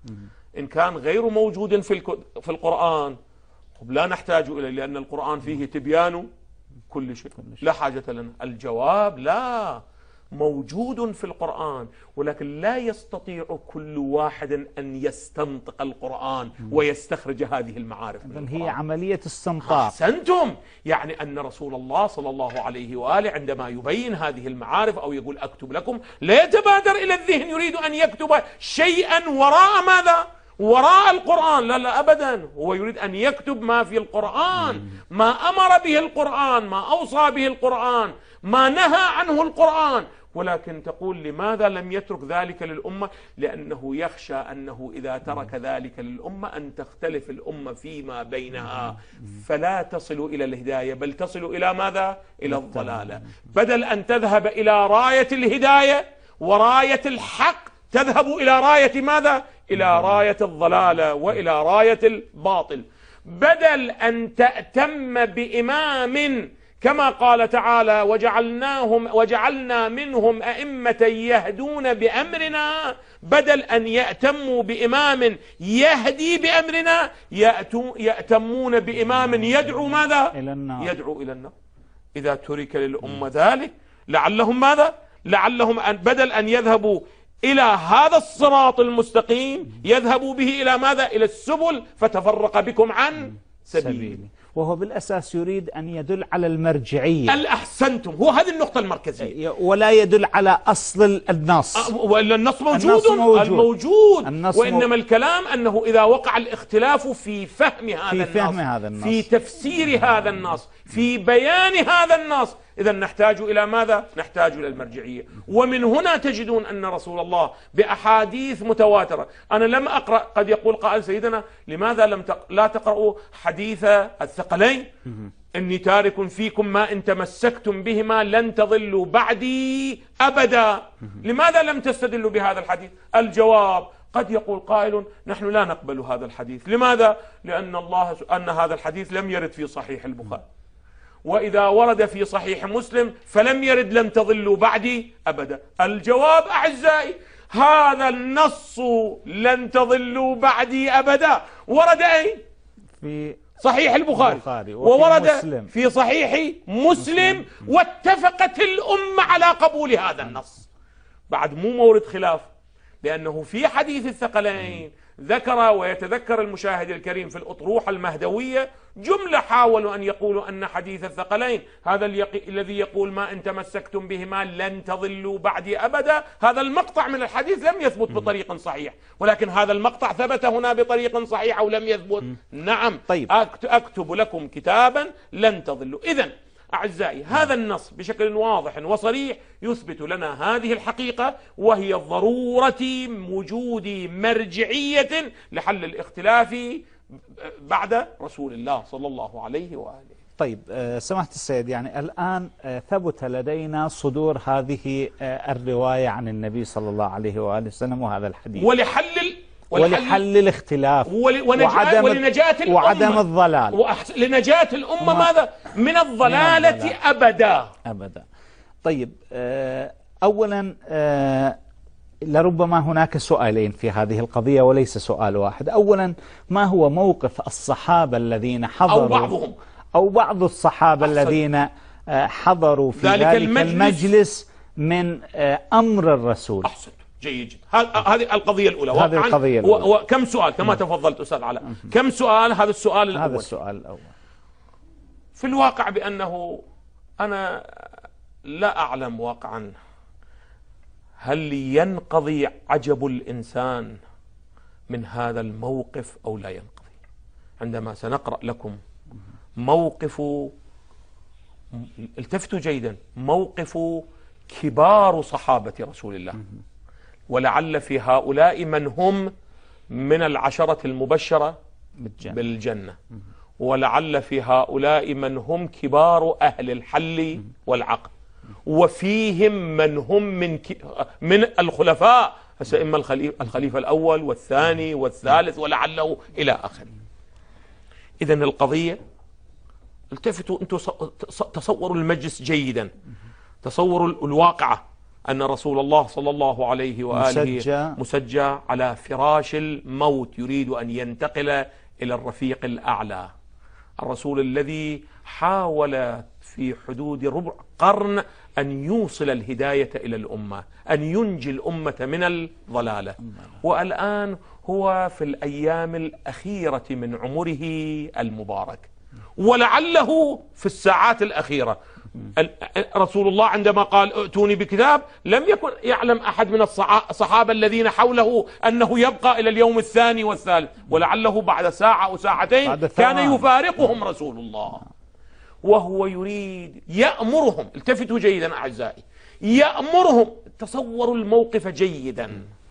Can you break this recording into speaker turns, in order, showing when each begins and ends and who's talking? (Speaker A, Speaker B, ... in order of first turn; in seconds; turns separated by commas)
Speaker A: 0.6-3.2, Speaker A: 3.8-6.3, Speaker A: 6.9-9.8, Speaker A: 10.3-18.7, Speaker B: 18.2-19.9, Speaker A: 19.6-81.5, Speaker B: 80.3-80.9, Speaker A: 82.1-94.2, Speaker B: 93.8-97.4, Speaker A: 97.3-99.3, Speaker B: 99.2-101.9, Speaker A: 101.8-124.9, Speaker B: 102.7-103.7, Speaker B: 104.2-104.9, Speaker B: 108.1-109.2, Speaker A: 125.5-140.4, Speaker A: 141.2-152.4, Speaker B: 153.0-153.4, Speaker A: 153.6-160.7, Speaker B: 154.1-155.7, Speaker B: 157.1-157.4, Speaker A: 161.3-162.5, Speaker A: 163.0-196.8, Speaker A: 197.4-200.2, Speaker B: 200.4-208.7, Speaker A: 208.6-210.2, Speaker B: 209.7-213.8, Speaker A: 211.1-217.7, Speaker B: 215.0-215.3, Speaker B: 216.2-216.9, Speaker B: 217.8-218.2, Speaker B: 218.8-221.6, Speaker B: 222.2-229.3, Speaker A: 228.9-229.5, Speaker B: 229.9-236.7, Speaker A: 231.0-231.4, Speaker A: 232.9-234.1, Speaker A: 236.6-243.5, Speaker B: 238.9-239.9, Speaker B: 243.1-244.1, Speaker A: 245.3-246.6, Speaker A: 247.2-247.5, Speaker A: 248.5-249.7, Speaker A: 251.2-253.9, Speaker A: 254.9-256.9, Speaker A: 257.6-258.8, Speaker A: 259.6-260.5, Speaker A: 261.7-266.4, Speaker A: 267.3-269.3, Speaker A: 269.9-271.6, Speaker B: 272.0-272.4, Speaker A: 272.2-272.9, Speaker A: 273.6-278.1, Speaker A: 278.6-286.9, Speaker A: 288.2-289.0, Speaker A: 290.1-292.9, Speaker A: 293.6-303.3, Speaker B: 297.1-298.0, Speaker A: 304.0-334.8, Speaker B: 332.6-333.4, Speaker A: 335.6-342.5